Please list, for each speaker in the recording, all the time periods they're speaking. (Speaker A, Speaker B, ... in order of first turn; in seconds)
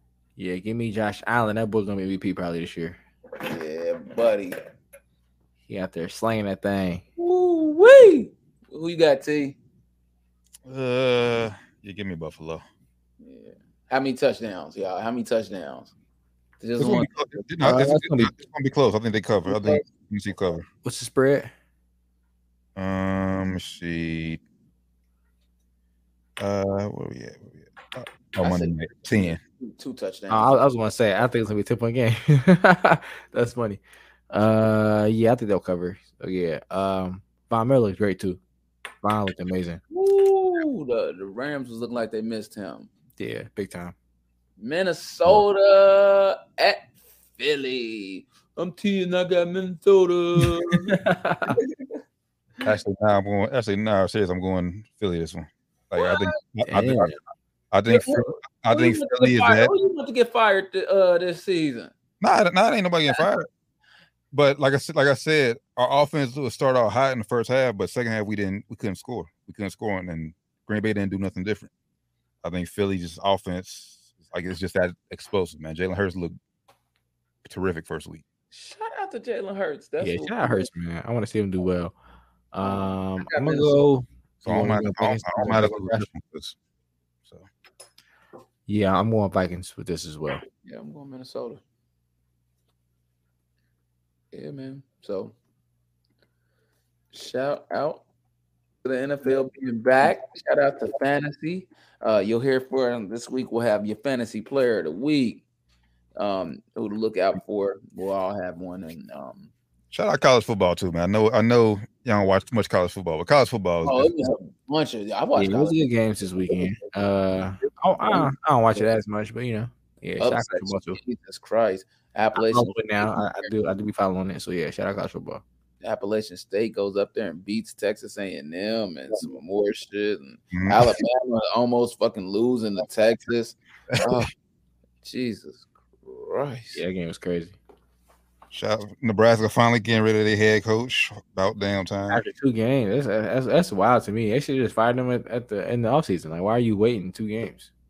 Speaker A: 0.4-3.0, 5.7-7.0, 17.6-18.3, 20.8-21.5, 30.3-38.4, 39.0-39.8, 43.2-43.9, 50.7-51.6, 56.7-57.2, 80.0-81.9, 82.5-86.1, 88.7-90.4, 115.3-121.0, 122.3-125.4, 136.7-137.5, 142.1-147.7
Speaker B: 3.4-4.6, 7.2-9.6, 13.2-15.9, 16.6-17.4, 19.5-19.8, 28.4-30.6, 39.9-42.9, 44.6-51.0, 51.5-52.0, 56.0-56.3, 57.9-61.9, 78.5-80.7, 82.6-83.8, 90.6-91.6, 94.3-95.3, 97.1-98.0, 98.8-105.4, 106.2-109.5, 113.8-115.8, 118.0-118.3, 120.2-123.5, 125.8-134.3, 135.0-136.8
Speaker C: 10.6-12.6, 16.8-20.6, 22.8-24.4, 26.4-29.4, 52.6-57.1, 57.7-59.7, 62.2-63.5, 64.3-71.7, 72.4-76.4, 77.4-78.2, 84.4-86.5, 109.9-114.1, 130.5-130.9, 133.9-134.2, 138.5-142.2